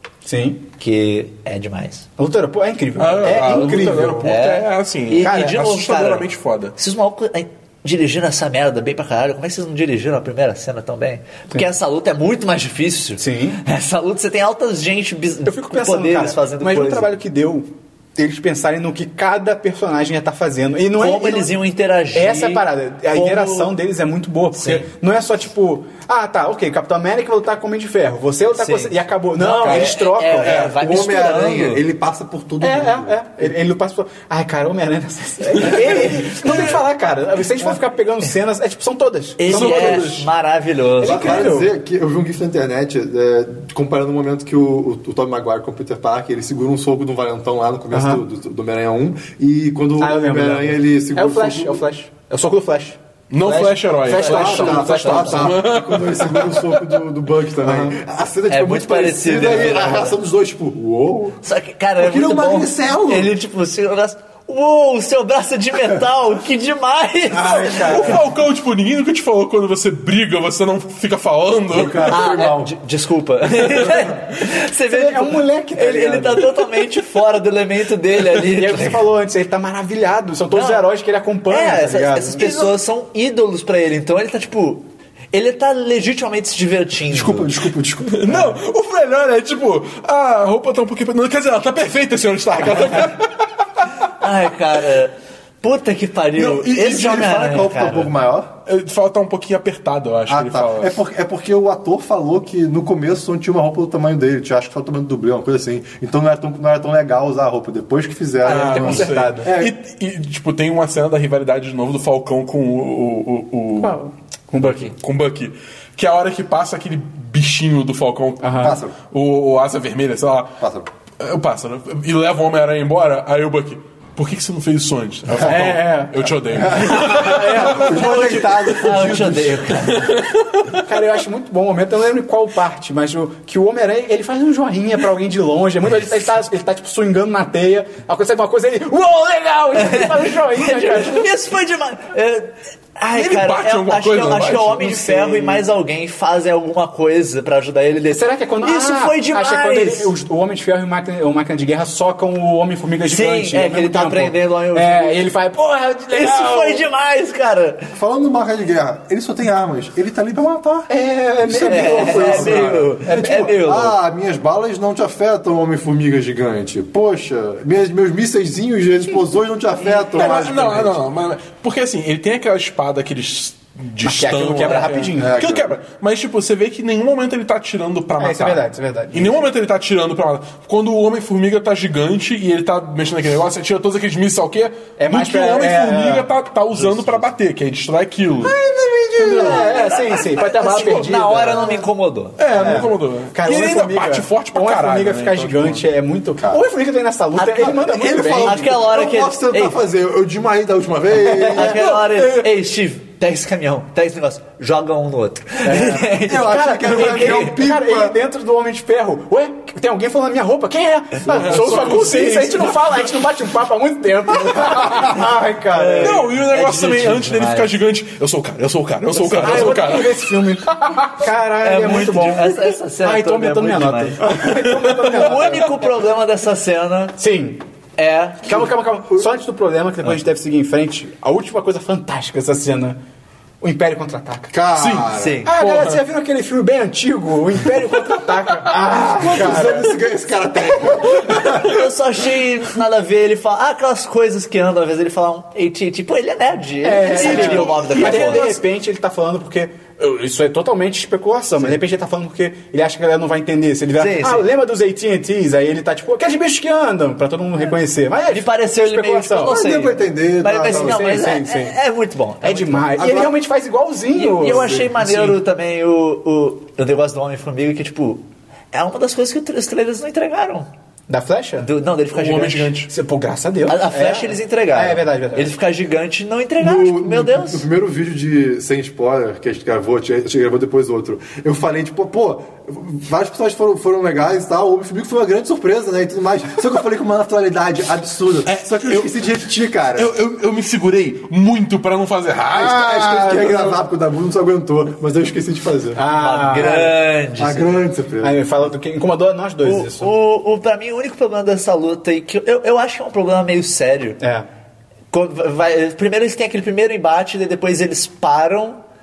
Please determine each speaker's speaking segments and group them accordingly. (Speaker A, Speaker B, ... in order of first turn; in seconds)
Speaker A: 0.2-0.7, 2.2-4.4, 5.2-5.6, 13.2-13.6, 15.4-21.5, 22.1-30.7, 32.6-40.1, 41.0-41.7, 47.9-48.2, 50.0-55.6, 57.6-58.0, 67.3-68.3, 74.9-76.8, 78.3-82.8, 108.4-109.5, 113.8-114.9, 118.4-118.8, 125.4-128.2, 130.8-141.3, 144.6-145.6, 148.1-156.9, 160.9-163.5, 170.0-170.9, 174.0-175.4, 178.2-179.4, 185.0-186.3, 189.2-191.9, 192.5-198.7, 205.7-216.2, 219.2-225.9, 227.2-227.6, 228.4-233.0, 233.6-234.5, 235.5-240.0, 246.8-259.6, 260.6-261.8, 262.4-264.8, 271.1-271.7, 272.9-275.5, 292.8-293.8, 296.0-296.9, 298.2-300.1, 304.2-304.5
Speaker B: 0.8-2.1, 3.5-17.1, 21.0-23.7, 24.6-24.9, 28.6-31.8, 36.0-36.6, 39.4-41.5, 54.2-55.5, 58.5-60.2, 61.4-68.2, 72.1-79.1, 80.5-80.8, 81.5-87.6, 94.1-98.1, 127.2-130.1, 139.8-150.1, 153.1-155.3, 156.1-157.9, 161.6-164.0, 189.4-192.4, 198.2-199.8, 201.3-207.6, 215.7-217.7, 221.6-224.5, 225.0-227.2, 228.0-228.7, 235.1-235.5, 241.2-248.6, 254.0-254.5, 258.3-263.0, 264.1-270.7, 271.6-272.8, 273.7-277.7, 296.1-297.8, 299.6-304.2, 305.1-308.8
Speaker C: 3.0-6.8, 30.4-30.7, 35.6-35.9, 39.5-40.3, 53.3-57.0, 67.5-72.2, 88.0-93.3, 96.4-96.6, 98.7-101.0, 108.4-114.0, 114.6-120.6, 121.2-128.2, 129.9-130.8, 143.1-145.0, 170.1-188.5, 192.4-195.8, 201.6-202.5, 211.3-213.0, 216.0-220.2, 224.3-225.5, 234.8-236.0, 247.2-248.2, 265.1-265.3, 272.1-272.9, 288.5-289.2, 289.9-292.9
Speaker D: 30.7-33.5, 41.0-51.8, 54.2-61.4, 62.0-63.4, 71.7-72.7, 87.1-88.6, 96.5-98.5, 100.3-109.7, 118.6-118.9, 120.6-120.9, 126.5-129.7, 157.9-160.9, 161.4-170.9, 175.2-175.7, 188.4-190.0, 196.4-196.6, 197.3-201.8, 206.1-208.2, 211.4-211.7, 214.4-216.2, 234.5-235.4, 238.7-241.9, 259.4-261.0, 263.0-263.3, 264.4-265.0, 276.6-290.1, 292.5-296.1, 296.6-298.4